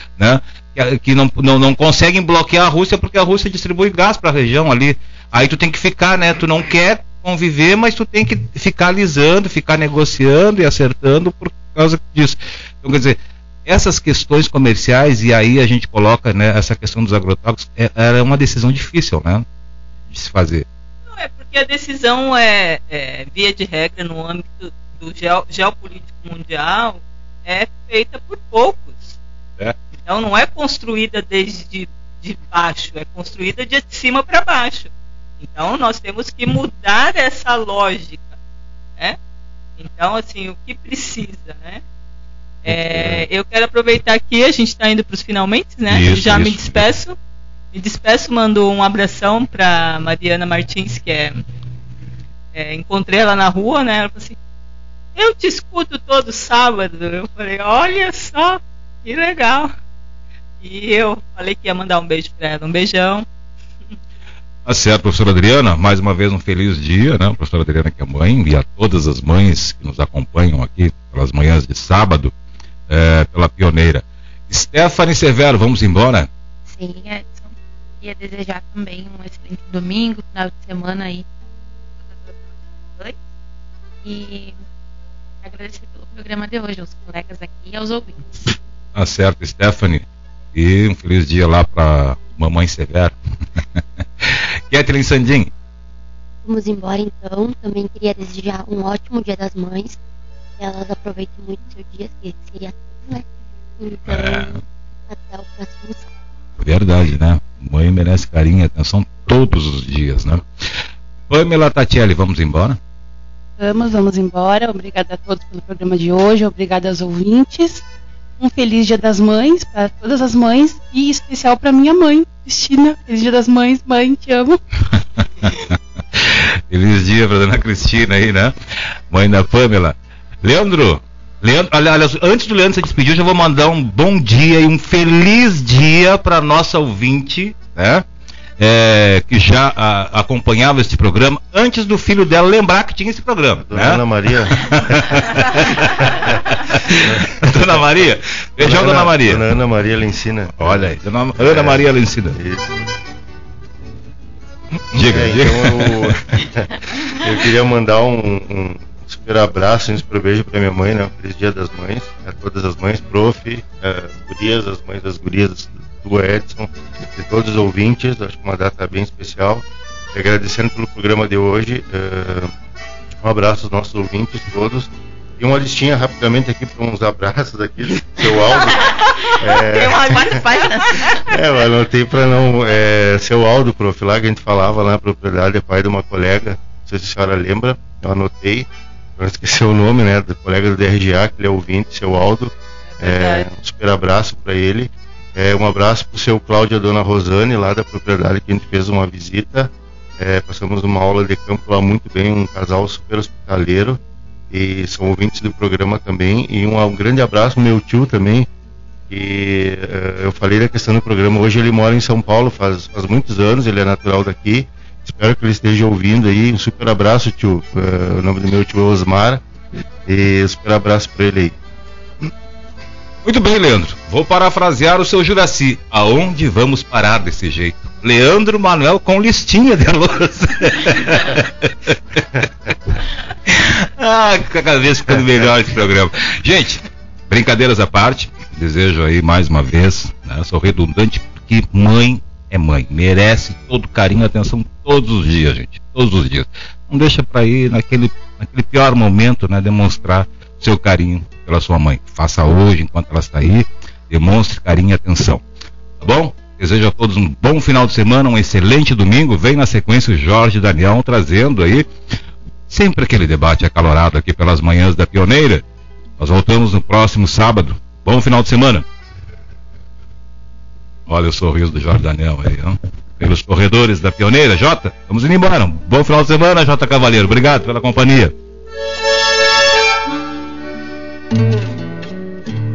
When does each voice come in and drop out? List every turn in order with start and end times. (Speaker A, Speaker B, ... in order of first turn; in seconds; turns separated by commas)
Speaker A: 0.2-19.4, Speaker A: 20.1-20.6, Speaker B: 21.0-29.2, Speaker B: 29.9-38.4, Speaker B: 39.8-41.8, Speaker B: 42.6-47.2, Speaker A: 42.6-43.2, Speaker A: 45.9-46.9, Speaker B: 47.7-51.4, Speaker B: 52.5-54.4, Speaker B: 55.1-59.7, Speaker B: 60.6-63.2, Speaker A: 64.7-72.3, Speaker A: 72.9-76.3, Speaker C: 76.7-81.3, Speaker C: 82.0-82.4, Speaker C: 84.0-84.6, Speaker C: 85.4-88.5, Speaker A: 88.9-93.1, Speaker A: 94.2-95.5, Speaker D: 96.4-100.0, Speaker D: 100.6-103.3, Speaker D: 103.8-106.1, Speaker A: 104.1-104.6, Speaker A: 106.6-110.4, Speaker A: 111.3-112.8, Speaker E: 113.6-117.8, Speaker E: 118.4-124.6, Speaker A: 125.2-138.1, Speaker A: 138.6-144.0, Speaker F: 143.6-147.8, Speaker A: 144.5-149.5, Speaker F: 148.6-151.8, Speaker A: 150.6-152.4, Speaker F: 152.3-152.7, Speaker A: 154.9-156.2, Speaker F: 154.9-172.5, Speaker F: 173.2-180.4, Speaker B: 178.6-181.4, Speaker F: 181.1-208.5, Speaker B: 193.0-193.5, Speaker F: 209.1-219.4, Speaker F: 220.1-221.6, Speaker A: 223.2-232.0, Speaker A: 233.4-255.4, Speaker A: 256.0-261.9, Speaker A: 262.7-265.6, Speaker A: 266.2-268.9, Speaker A: 271.1-278.3